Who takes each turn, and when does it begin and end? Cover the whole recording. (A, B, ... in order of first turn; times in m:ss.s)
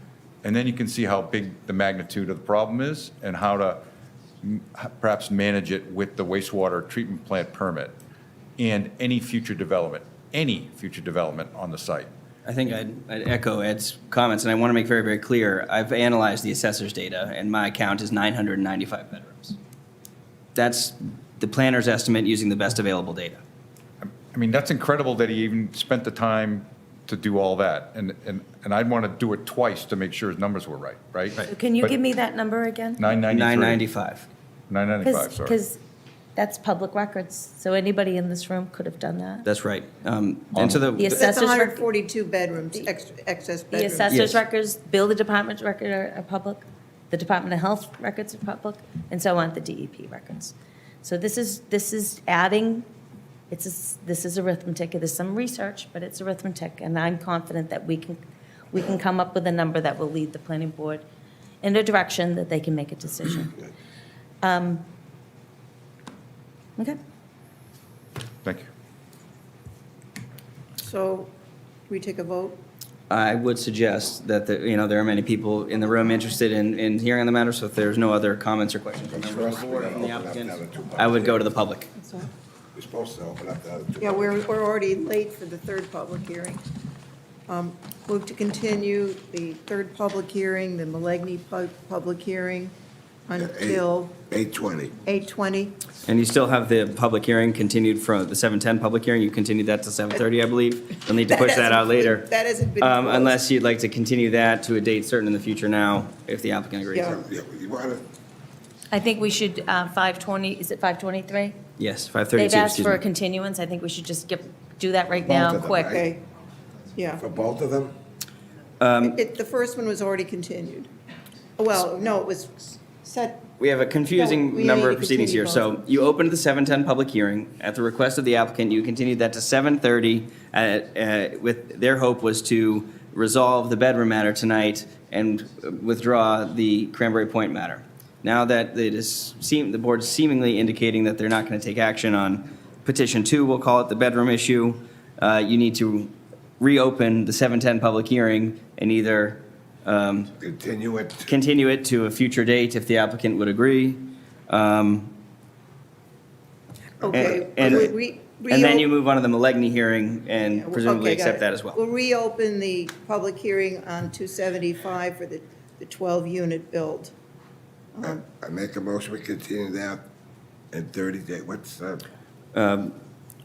0:00.4-0:03.8 A
0:04.4-0:07.9 A
0:08.6-0:12.1 A
0:12.4-0:19.6 B
0:20.5-0:23.4 B
0:24.0-0:32.0 A
0:31.4-0:33.0 C
0:33.0-0:33.8 A
0:33.3-0:34.3 B
0:34.7-0:35.6 A
0:35.0-0:35.8 C
0:36.4-0:39.5 C
0:39.4-0:41.1 B
0:40.5-0:40.8 A
0:40.9-0:41.9 C
0:41.1-0:44.2 D
0:43.7-0:52.8 C
0:44.1-0:44.4 B
0:53.5-0:58.2 C
0:58.7-1:01.0 C
1:01.6-1:03.5 C
1:04.4-1:04.8 C
1:10.8-1:11.3 D
1:11.9-1:12.6 D
1:13.1-1:21.9 B
1:19.1-1:21.4 E
1:21.9-1:22.3 D
1:22.7-1:24.4 E
1:24.0-1:26.6 D
1:27.5-1:32.7 D
1:33.2-1:34.1 D
1:33.4-1:35.0 E
1:35.0-1:35.8 D
1:36.0-1:42.3 B
1:41.1-1:43.4 D
1:42.8-1:47.1 B
1:46.9-1:47.2 D
1:47.0-1:48.0 E
1:48.9-1:51.6 C
1:51.8-1:53.0 B
1:52.3-1:56.0 C
1:55.2-1:56.0 E
1:55.9-1:56.2 D
1:56.9-1:57.2 D
1:57.2-1:58.0 E
1:58.8-1:59.2 B
1:59.0-2:00.9 D
2:01.6-2:03.4 D
2:03.6-2:30.3 B
2:04.1-2:05.8 D
2:30.4-2:31.3 E
2:31.3-2:35.1 B
2:37.0-2:38.9 D
2:37.1-2:38.0 B
2:37.1-2:37.8 E
2:38.5-2:41.8 B
2:40.5-2:47.1 D
2:47.9-2:48.2 D
2:48.0-2:50.0 E
2:50.7-2:52.0 E
2:52.5-2:53.0 B